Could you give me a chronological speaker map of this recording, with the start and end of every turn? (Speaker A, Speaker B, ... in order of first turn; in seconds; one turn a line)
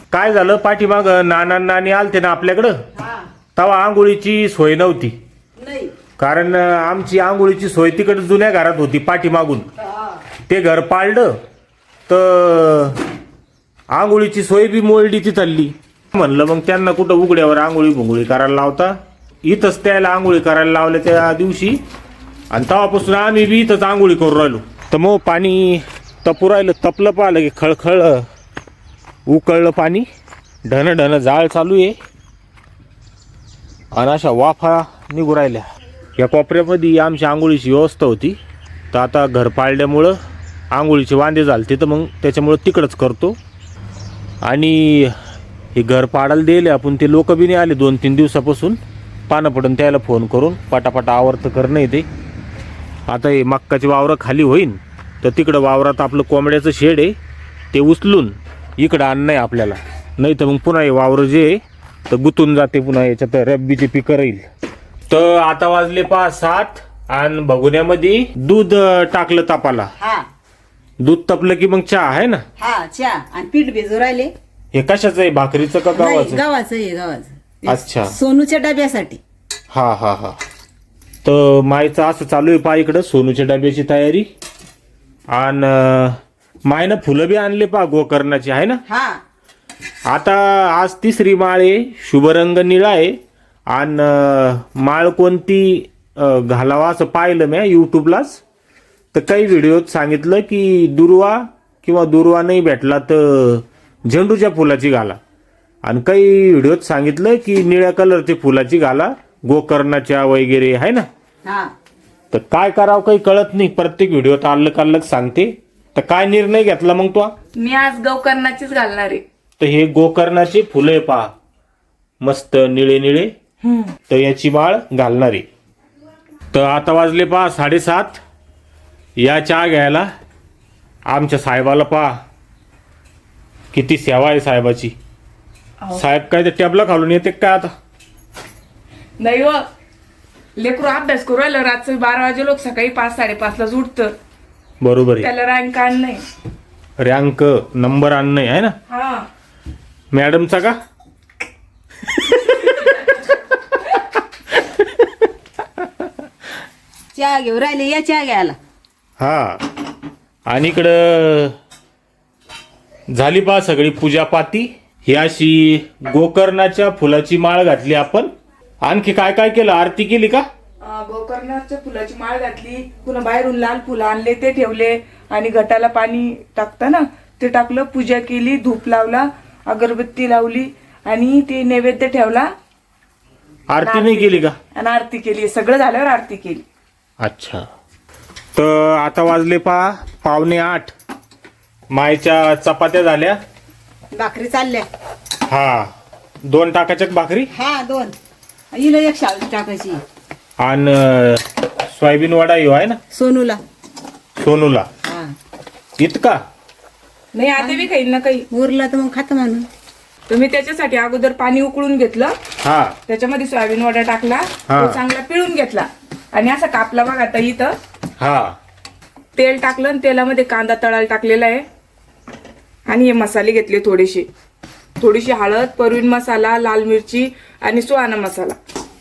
Speaker A: 0.1-2.7
Speaker B: 2.9-3.3
Speaker A: 3.5-5.2
Speaker B: 5.6-5.9
Speaker A: 6.2-9.7
Speaker A: 10.5-11.3
Speaker A: 12.1-13.0
Speaker A: 13.9-21.8
Speaker A: 22.5-28.2
Speaker A: 29.3-30.1
Speaker A: 30.7-32.0
Speaker A: 33.9-35.6
Speaker A: 36.2-38.4
Speaker A: 38.9-40.2
Speaker A: 40.7-43.4
Speaker A: 44.4-45.1
Speaker A: 45.7-52.0
Speaker A: 53.1-57.1
Speaker A: 57.7-64.4
Speaker A: 65.1-69.9
Speaker B: 70.0-70.3
Speaker A: 71.0-72.4
Speaker B: 72.6-74.3
Speaker A: 74.7-76.4
Speaker B: 75.9-79.2
Speaker A: 77.7-78.1
Speaker A: 79.7-80.4
Speaker A: 81.2-84.3
Speaker A: 85.3-88.8
Speaker B: 88.9-89.2
Speaker A: 90.1-93.2
Speaker A: 93.7-98.4
Speaker A: 99.1-105.2
Speaker A: 105.8-111.0
Speaker B: 111.4-111.7
Speaker A: 112.3-117.3
Speaker C: 117.5-119.2
Speaker A: 119.6-121.3
Speaker A: 122.2-123.3
Speaker C: 123.6-123.9
Speaker A: 124.1-125.5
Speaker A: 126.5-128.2
Speaker A: 129.2-130.1
Speaker A: 131.1-132.1
Speaker A: 133.7-134.9
Speaker A: 135.9-137.7
Speaker C: 139.2-139.6
Speaker C: 140.6-144.1
Speaker A: 144.8-145.3
Speaker C: 145.2-146.2
Speaker A: 147.0-148.7
Speaker C: 148.9-149.3
Speaker A: 150.1-150.8
Speaker A: 152.1-152.9
Speaker B: 157.1-158.6
Speaker A: 159.2-159.6
Speaker A: 160.5-161.5
Speaker A: 163.1-168.3
Speaker A: 168.8-170.4
Speaker C: 170.8-182.5
Speaker A: 183.7-184.5
Speaker C: 183.8-186.6
Speaker A: 187.2-187.6
Speaker A: 188.5-190.9
Speaker A: 191.9-193.4
Speaker B: 194.1-194.9
Speaker A: 195.4-195.9
Speaker A: 196.4-197.5
Speaker B: 197.5-198.1
Speaker B: 198.7-200.0
Speaker A: 200.6-203.0
Speaker B: 203.1-203.6
Speaker A: 204.4-204.9
Speaker B: 205.1-205.3
Speaker A: 206.0-206.4
Speaker C: 207.3-208.4
Speaker B: 207.6-207.9
Speaker B: 208.5-209.7
Speaker C: 210.3-212.3
Speaker A: 212.6-212.9
Speaker C: 213.1-217.7
Speaker A: 214.7-215.0
Speaker A: 218.2-218.5
Speaker C: 219.3-221.6
Speaker C: 222.9-224.3
Speaker C: 225.0-228.6